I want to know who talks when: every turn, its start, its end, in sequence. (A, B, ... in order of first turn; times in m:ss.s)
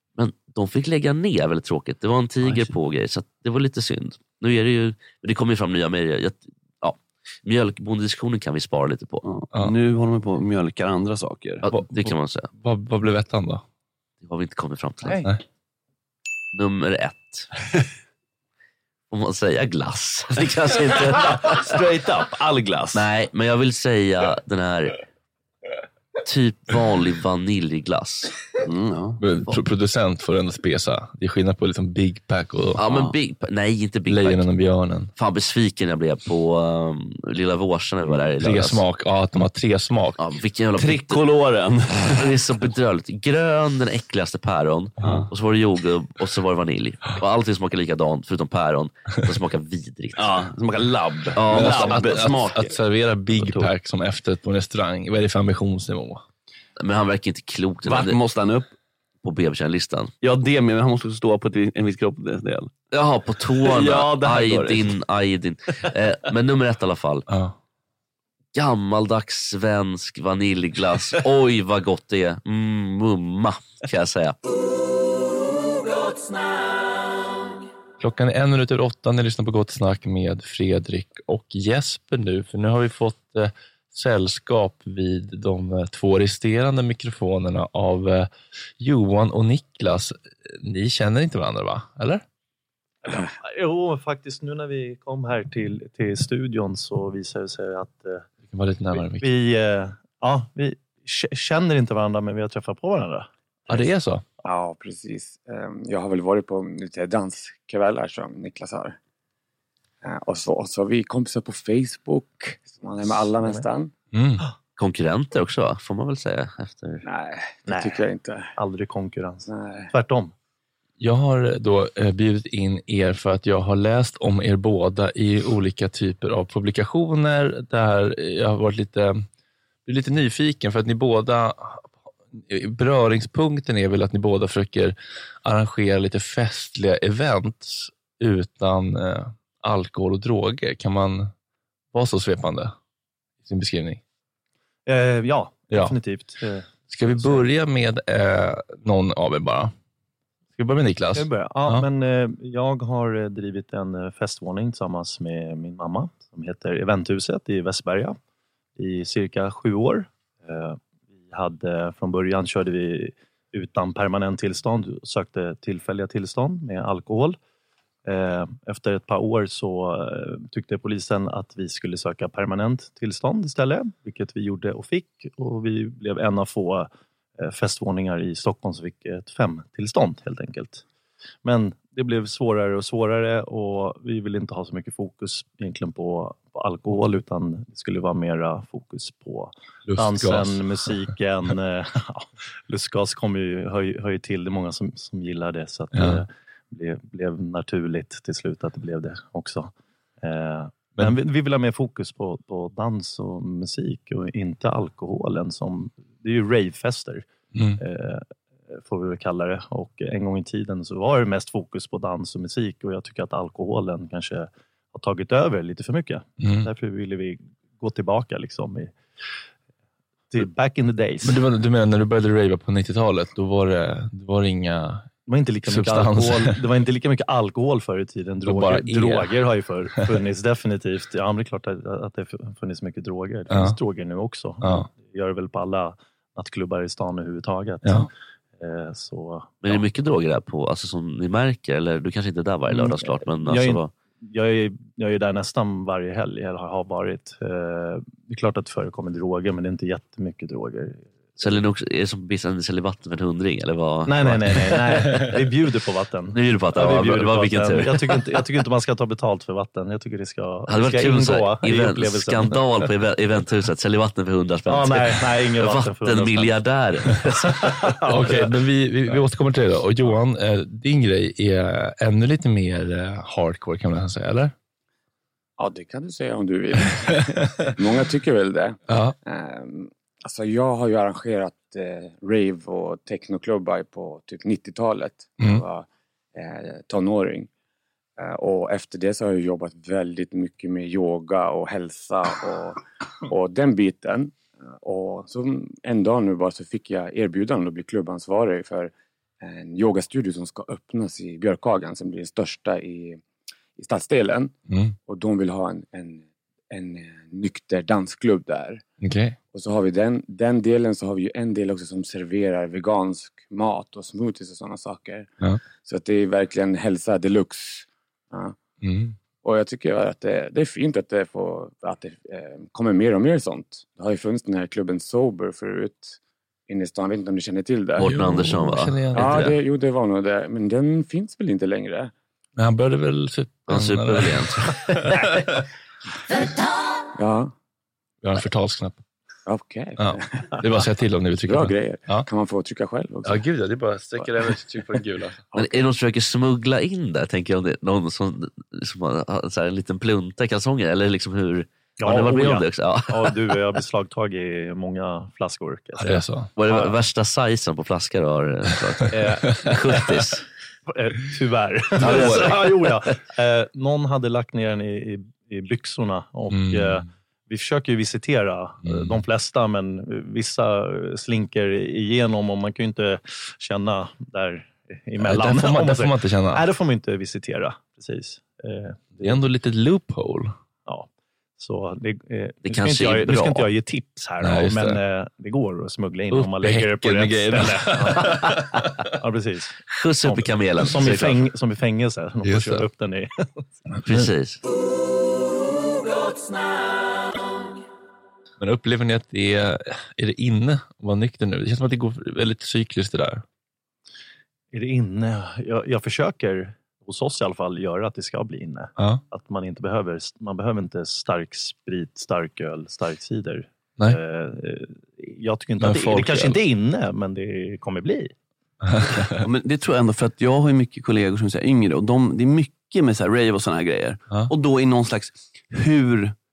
0:00.2-0:09.2 A
0:02.4-0:02.7 B
0:09.2-0:11.6 B
0:11.6-0:12.5 A
0:11.7-0:13.6 C
0:14.2-0:15.2 A
0:16.5-0:17.5 A
0:19.1-0:21.8 A
0:21.0-0:23.1 B
0:22.9-0:25.0 A
0:26.2-0:28.4 A
0:28.6-0:29.2 B
0:29.2-0:32.8 C
0:32.8-0:34.4 A
0:34.1-0:35.1 C
0:35.2-0:38.8 A
0:38.4-0:40.2 C
0:40.2-0:41.2 A
0:40.8-0:42.4 B
0:42.1-0:50.4 A
0:50.2-0:52.7 B
0:51.4-0:52.3 A
0:51.5-0:56.2 C
0:53.4-0:53.7 B
0:56.8-0:58.2 A
0:57.8-0:58.7 B
0:59.2-1:00.1 A
1:00.2-1:02.7 B
1:02.9-1:07.2 A
1:03.6-1:04.9 B
1:07.3-1:07.5 C
1:08.5-1:14.4 A
1:18.0-1:32.2 C
1:33.1-1:38.3 D
1:38.5-1:39.3 C
1:38.9-1:43.3 D
1:43.7-1:44.2 C
1:44.4-1:49.0 E
1:50.0-1:53.9 E
1:53.1-1:53.6 D
1:54.1-1:54.4 C
1:54.8-1:57.0 A
1:57.0-1:58.5 E
1:57.7-1:58.0 D
1:58.6-2:00.3 D
1:59.5-1:59.9 E
2:01.0-2:09.2 C
2:09.8-2:21.3 C
2:21.9-2:22.8 C
2:23.4-2:24.0 C
2:24.8-2:27.5 D
2:25.7-2:26.0 C
2:26.9-2:29.7 C
2:30.5-2:31.8 C
2:31.1-2:38.2 D
2:38.8-2:47.4 D
2:48.0-2:56.9 D
2:57.4-3:00.8 D
3:01.4-3:27.2 D
3:09.8-3:10.9 C
3:15.9-3:16.2 C
3:27.5-3:27.8 C
3:27.8-3:38.9 D
3:36.4-3:36.7 C
3:40.3-3:41.4 D
3:41.2-3:45.1 C
3:45.3-3:59.8 D
3:45.7-3:46.6 C
3:48.4-3:49.4 C
3:53.5-3:53.8 C
3:54.6-3:54.9 C
3:59.6-4:03.9 A
4:02.7-4:11.1 D
4:11.4-4:15.2 A
4:14.0-4:22.7 D
4:16.3-4:18.2 A
4:20.7-4:27.8 A
4:24.7-4:26.5 D
4:27.5-4:28.5 D
4:28.1-4:34.5 C
4:35.6-4:47.5 E
4:38.9-4:39.2 C
4:45.4-4:45.6 C
4:48.2-5:03.2 E
5:03.8-5:04.5 E
5:04.7-5:05.0 C
5:05.1-5:08.8 E
5:09.0-5:09.4 C
5:09.5-5:15.3 E
5:15.8-5:18.6 E
5:18.8-5:19.2 C
5:19.4-5:28.5 E
5:28.0-5:29.5 A
5:28.1-5:29.5 C
5:29.1-5:32.1 E
5:32.6-5:35.6 C
5:33.7-5:34.7 A
5:37.2-5:37.5 E
5:38.2-5:39.0 C
5:39.5-5:40.8 E
5:40.0-5:42.3 C
5:41.5-5:43.4 E
5:43.2-5:45.4 C
5:44.2-5:44.5 E
5:45.5-5:45.8 E
5:45.6-5:53.5 A
5:52.0-5:57.0 D
5:56.0-5:56.5 C
5:56.6-6:00.4 A
5:59.1-5:59.4 D
6:00.9-6:19.5 D
6:02.0-6:03.0 C
6:02.0-6:02.4 A
6:06.5-6:07.0 C
6:08.8-6:09.2 C
6:15.2-6:16.6 C
6:19.2-6:20.6 C
6:20.8-6:28.6 D
6:22.6-6:23.7 A
6:24.4-6:25.0 C
6:26.3-6:29.1 C
6:29.2-6:33.3 D
6:30.0-6:31.5 A
6:32.4-6:32.9 C
6:33.9-6:34.3 C
6:34.0-6:34.6 A
6:38.6-6:43.4 C
6:44.7-6:58.3 D
6:49.0-6:49.2 C
6:55.8-6:56.6 C
6:58.8-6:59.4 C
6:59.4-7:06.4 B